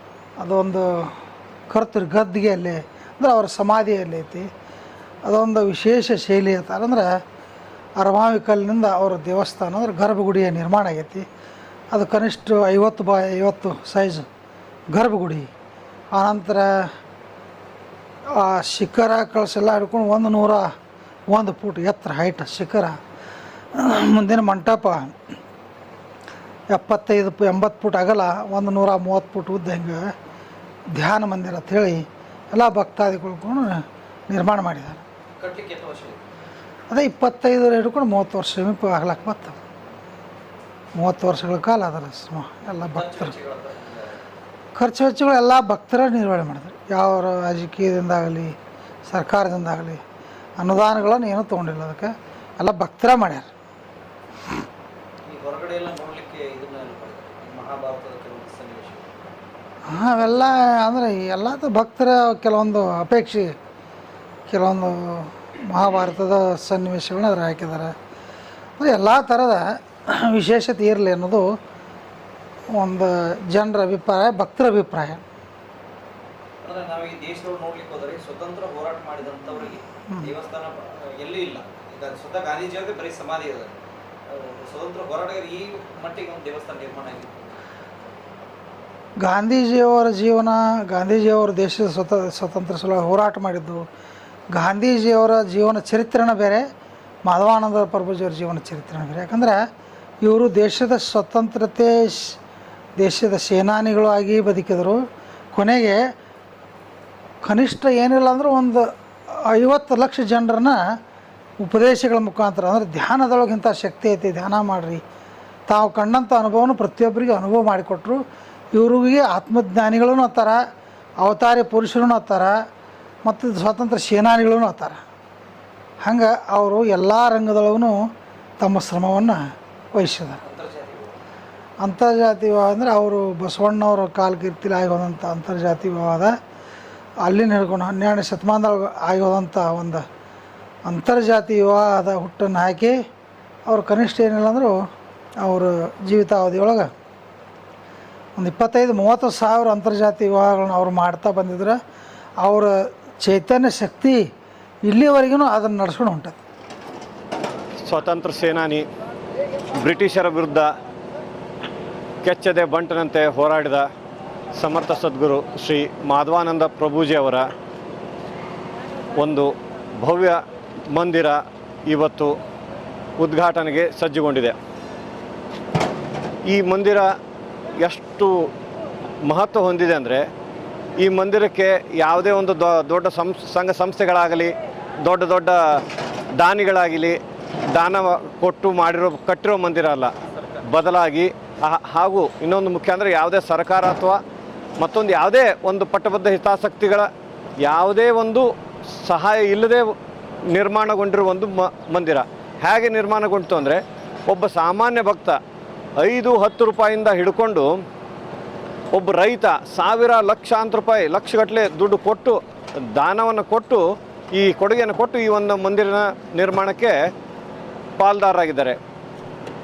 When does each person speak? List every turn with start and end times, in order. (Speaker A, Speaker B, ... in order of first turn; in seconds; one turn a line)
Speaker A: 0.4-4.5
Speaker A: 5.2-7.2
Speaker A: 8.0-11.3
Speaker A: 11.9-14.3
Speaker A: 14.9-15.5
Speaker A: 16.1-16.9
Speaker A: 18.3-20.7
Speaker A: 21.3-23.0
Speaker A: 23.7-25.1
Speaker A: 26.7-30.1
Speaker A: 30.9-35.0
Speaker B: 35.4-36.2
Speaker A: 36.9-39.6
Speaker A: 40.9-43.3
Speaker B: 42.9-44.2
Speaker A: 44.7-50.0
Speaker A: 50.6-53.5
Speaker B: 55.2-59.1
Speaker A: 59.8-63.5
Speaker A: 64.5-67.9
Speaker A: 68.8-71.6
Speaker A: 72.7-75.2
Speaker B: 76.6-87.5
Speaker A: 89.2-93.9
Speaker A: 94.5-96.7
Speaker A: 97.2-99.7
Speaker A: 100.2-102.4
Speaker A: 103.0-106.1
Speaker A: 107.4-111.0
Speaker A: 111.6-115.0
Speaker A: 115.7-120.6
Speaker A: 121.2-122.6
Speaker A: 123.2-125.0
Speaker A: 126.0-130.4
Speaker B: 130.4-131.1
Speaker A: 131.8-136.4
Speaker A: 137.2-140.1
Speaker A: 140.8-143.0
Speaker A: 143.7-144.9
Speaker A: 145.4-146.9
Speaker A: 148.3-151.8
Speaker A: 152.4-154.3
Speaker A: 154.8-156.4
Speaker C: 157.8-158.8
Speaker C: 159.8-160.7
Speaker C: 162.2-163.8
Speaker C: 164.6-167.5
Speaker C: 169.1-172.4
Speaker C: 173.2-174.5
Speaker C: 176.5-177.1
Speaker C: 177.8-178.5
Speaker C: 179.2-180.2
Speaker C: 181.0-185.8
Speaker C: 186.4-187.2
Speaker C: 187.7-194.2
Speaker C: 194.8-197.1
Speaker C: 197.6-199.9
Speaker C: 200.5-205.4
Speaker C: 206.0-207.7
Speaker C: 208.9-212.4
Speaker C: 212.9-216.9
Speaker C: 218.0-218.8